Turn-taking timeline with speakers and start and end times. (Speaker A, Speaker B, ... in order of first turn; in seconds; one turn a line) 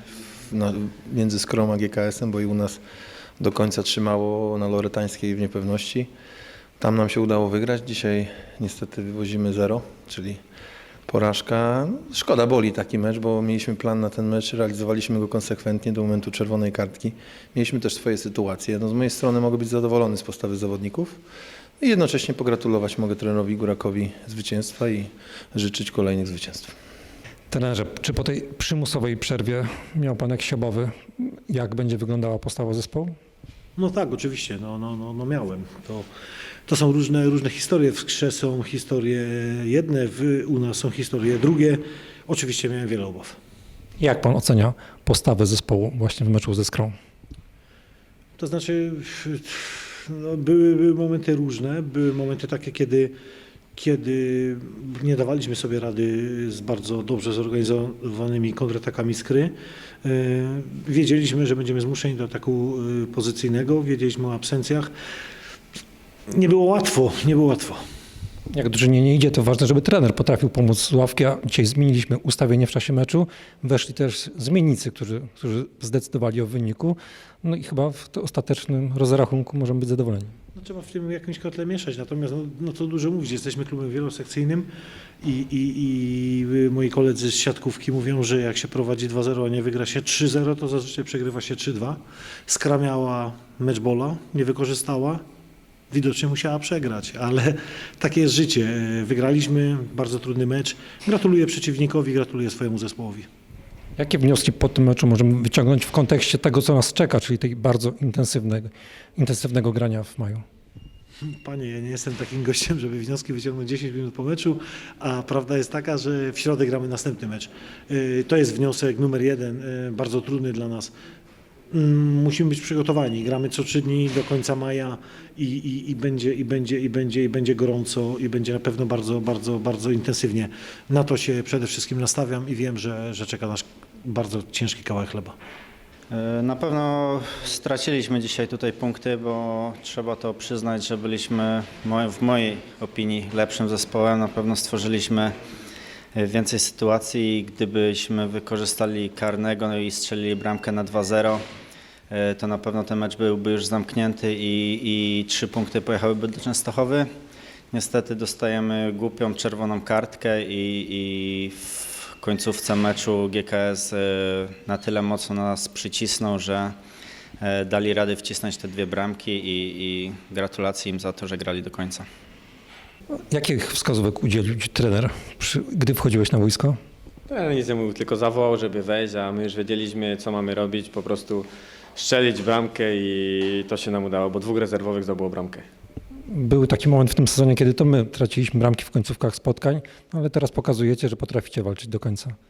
Speaker A: 0.5-2.8
Speaker A: 3.4-6.1
Speaker A: 6.8-10.4
Speaker A: 11.1-21.2
Speaker A: 21.8-26.7
Speaker B: 27.5-33.1
Speaker C: 33.8-36.1
Speaker C: 36.7-43.4
Speaker B: 44.0-46.9
Speaker C: 48.4-53.1
Speaker C: 53.8-64.9
Speaker C: 66.3-67.8
Speaker B: 68.5-80.3
Speaker C: 80.5-84.7
Speaker C: 85.2-95.2
Speaker C: 95.9-103.3
Speaker B: 104.0-110.4
Speaker C: 111.2-120.9
Speaker C: 121.7-135.3
Speaker D: 136.1-145.3
Speaker D: 146.1-151.4
Speaker D: 152.1-157.1
Speaker D: 157.7-166.8
Speaker D: 167.4-172.1
Speaker B: 173.3-176.8
Speaker E: 177.3-185.7
Speaker B: 186.3-192.3